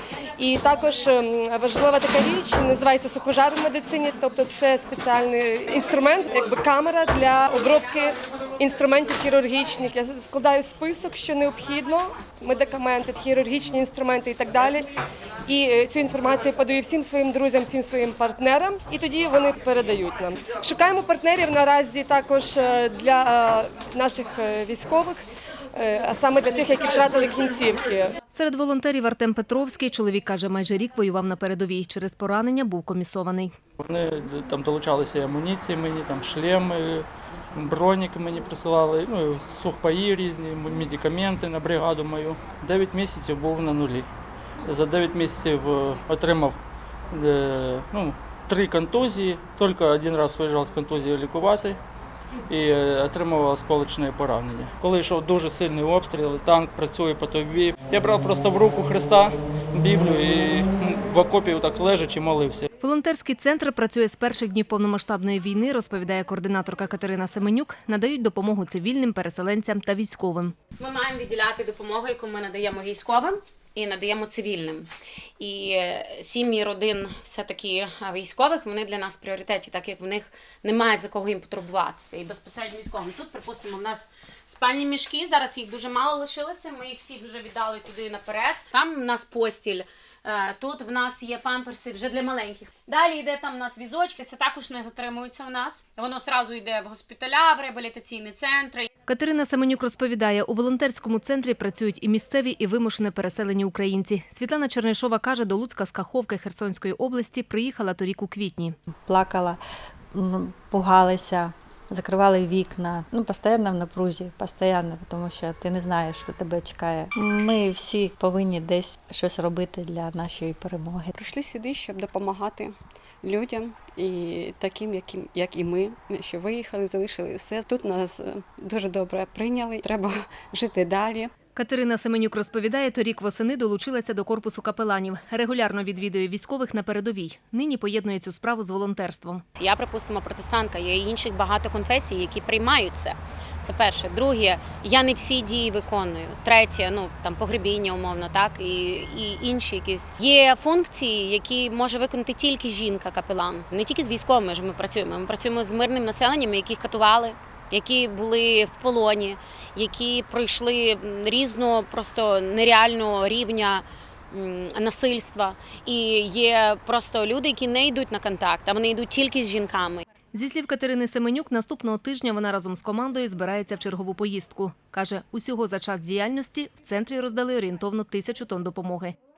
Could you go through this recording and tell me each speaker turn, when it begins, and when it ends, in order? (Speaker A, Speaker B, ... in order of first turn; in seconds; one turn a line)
Speaker A: 0.4-14.9
Speaker A: 15.5-28.1
Speaker B: 28.3-33.5
Speaker C: 33.8-44.1
Speaker C: 44.6-46.6
Speaker C: 47.1-51.8
Speaker C: 52.5-62.7
Speaker B: 62.8-70.5
Speaker D: 70.8-74.9
Speaker D: 75.4-98.9
Speaker B: 99.1-108.8
Speaker E: 109.0-109.6
Speaker E: 110.1-121.2
Speaker F: 121.2-122.7
Speaker F: 123.2-131.3
Speaker B: 131.6-139.4
Speaker D: 139.6-170.0
Speaker B: 170.3-179.2